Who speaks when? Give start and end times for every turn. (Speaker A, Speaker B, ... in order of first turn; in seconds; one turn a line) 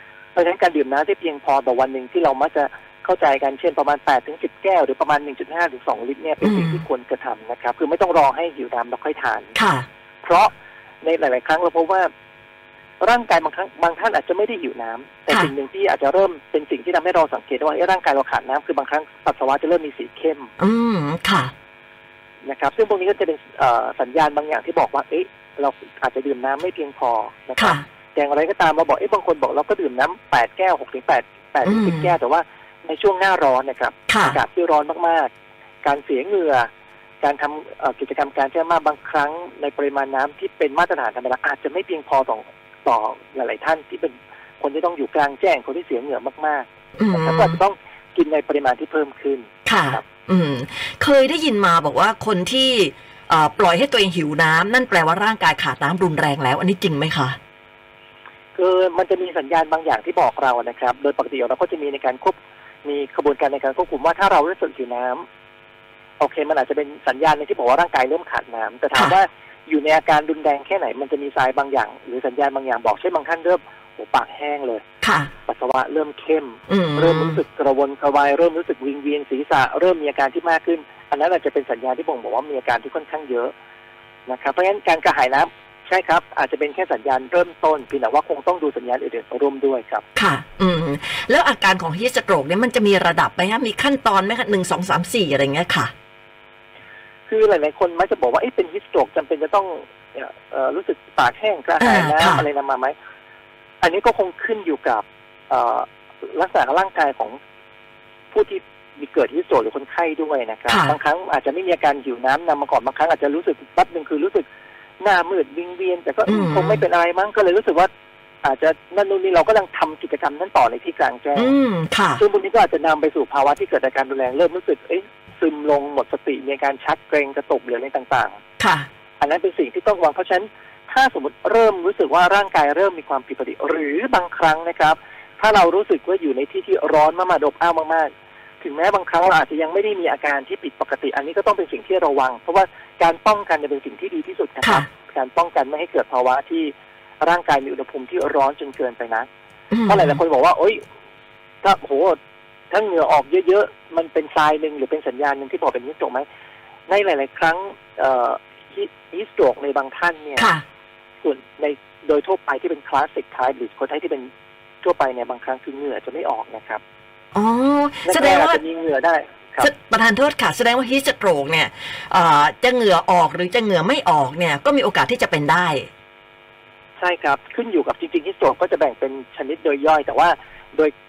Speaker A: 0.3-9.6
Speaker B: 6.4-6.8
Speaker B: 9.6-9.9
Speaker A: 10.2-12.1
Speaker A: 13.0-20.5
Speaker B: 20.6-21.5
Speaker A: 22.4-35.3
Speaker B: 27.6-27.8
Speaker B: 31.6-32.1
Speaker B: 34.1-34.4
Speaker A: 35.8-36.7
Speaker A: 37.2-50.0
Speaker B: 47.0-47.6
Speaker B: 49.6-57.4
Speaker A: 58.5-65.2
Speaker A: 66.2-74.8
Speaker B: 75.0-75.3
Speaker A: 75.5-83.5
Speaker B: 76.7-77.4
Speaker A: 84.3-90.0
Speaker B: 90.2-95.9
Speaker A: 97.3-103.0
Speaker B: 101.8-102.5
Speaker A: 103.8-107.4
Speaker A: 108.3-114.5
Speaker B: 110.7-111.0
Speaker A: 115.0-117.9
Speaker B: 116.3-116.8
Speaker A: 118.4-121.5
Speaker B: 121.4-122.2
Speaker A: 122.2-128.4
Speaker B: 128.6-128.9
Speaker A: 129.2-149.3
Speaker B: 144.6-144.9
Speaker B: 149.7-150.2
Speaker A: 149.9-150.8
Speaker A: 151.6-152.2
Speaker A: 152.7-156.3
Speaker A: 156.9-160.5
Speaker B: 160.4-160.6
Speaker A: 161.2-164.3
Speaker A: 164.8-166.8
Speaker B: 167.3-168.6
Speaker A: 168.1-169.7
Speaker B: 169.6-175.9
Speaker A: 177.0-180.9